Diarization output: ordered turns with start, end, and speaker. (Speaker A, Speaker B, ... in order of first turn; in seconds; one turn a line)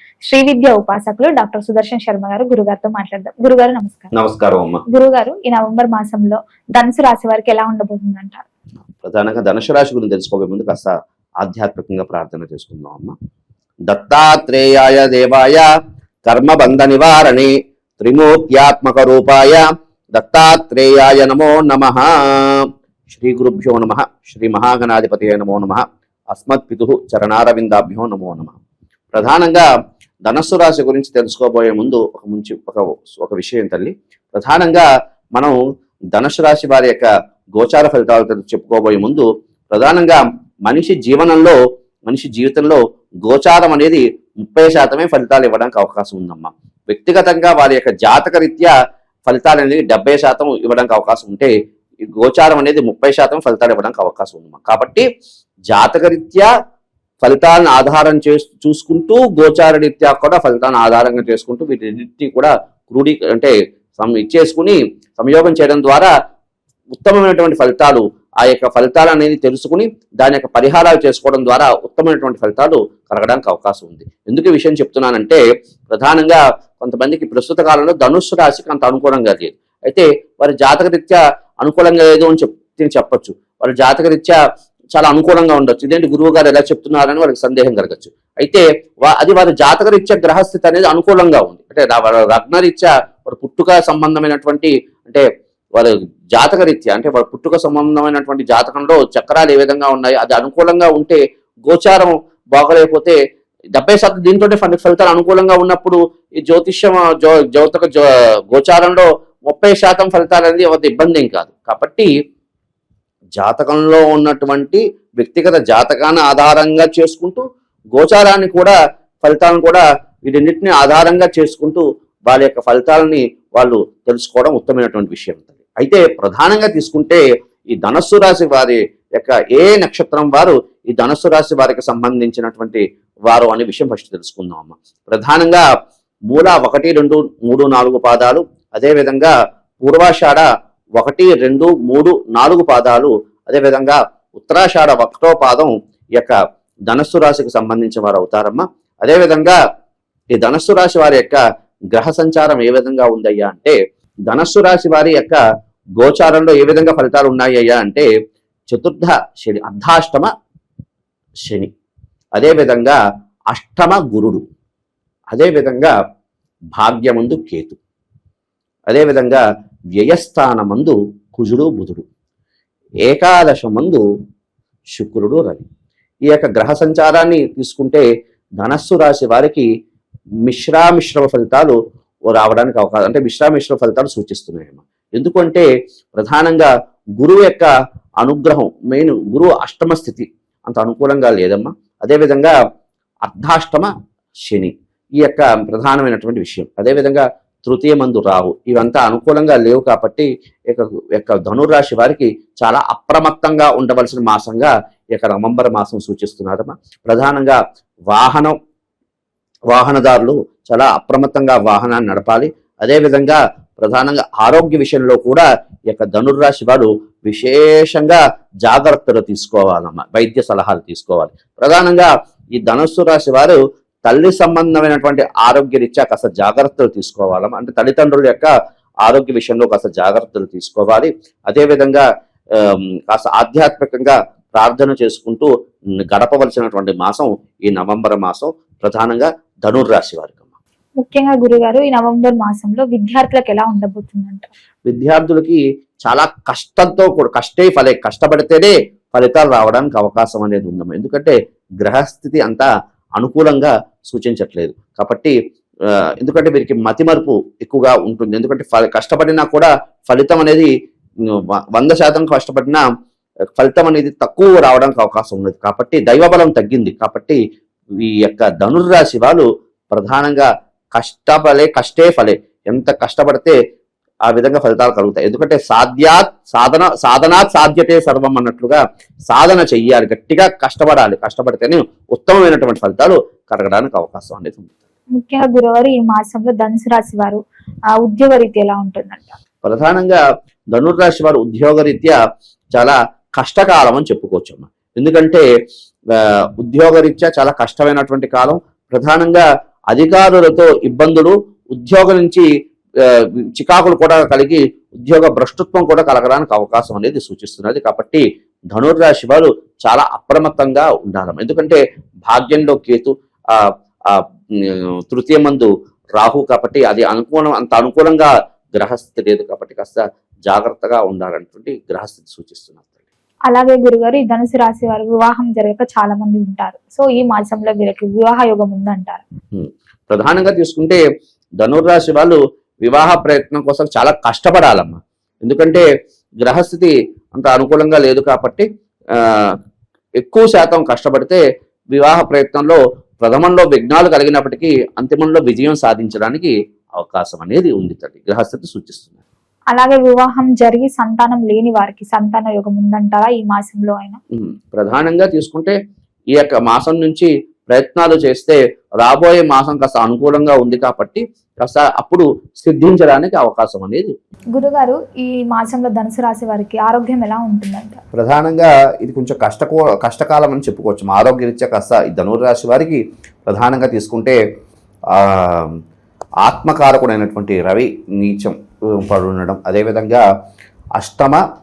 Speaker A: 0.3-4.1
Speaker B: 4.1-4.8
Speaker A: 4.9-8.4
Speaker B: 9.0-13.2
Speaker B: 13.9-15.7
Speaker B: 16.2-28.6
Speaker B: 29.1-29.7
Speaker B: 30.2-35.6
Speaker B: 36.1-48.7
Speaker B: 49.3-51.5
Speaker B: 52.2-55.1
Speaker B: 55.7-56.5
Speaker B: 57.2-66.1
Speaker B: 67.0-84.4
Speaker B: 84.9-103.2
Speaker B: 103.7-112.1
Speaker B: 113.4-117.4
Speaker B: 117.9-135.7
Speaker B: 136.3-146.4
Speaker B: 146.9-149.6
Speaker B: 150.3-151.4
Speaker B: 151.9-153.8
Speaker B: 154.3-155.4
Speaker B: 156.0-158.1
Speaker B: 158.7-160.3
Speaker B: 162.3-163.0
Speaker B: 163.5-164.4
Speaker B: 165.3-165.9
Speaker B: 166.8-167.8
Speaker B: 168.9-169.4
Speaker B: 170.0-172.1
Speaker B: 173.1-174.0
Speaker B: 175.0-175.7
Speaker B: 176.3-178.1
Speaker B: 178.6-179.7
Speaker B: 180.4-181.8
Speaker B: 182.3-187.7
Speaker B: 188.2-192.6
Speaker B: 193.2-193.9
Speaker B: 194.5-208.6
Speaker B: 209.7-228.5
Speaker B: 229.0-235.5
Speaker B: 236.0-240.5
Speaker A: 241.0-244.5
Speaker B: 244.9-255.3
Speaker B: 256.2-260.7
Speaker B: 261.2-262.9
Speaker B: 263.6-267.4
Speaker B: 268.0-273.6
Speaker B: 274.3-284.7
Speaker A: 285.2-287.4
Speaker A: 288.0-289.4
Speaker B: 289.6-290.2
Speaker B: 290.7-292.2
Speaker B: 292.8-295.5
Speaker B: 296.1-302.5
Speaker B: 303.0-322.9
Speaker A: 323.5-329.2
Speaker B: 329.5-331.0
Speaker B: 331.6-335.9
Speaker B: 336.4-339.6
Speaker B: 340.2-349.2
Speaker A: 349.7-354.2
Speaker B: 354.4-355.8
Speaker B: 356.3-364.1
Speaker A: 364.6-368.0
Speaker B: 368.1-374.4
Speaker B: 375.1-375.8
Speaker B: 376.4-380.2
Speaker B: 381.0-381.4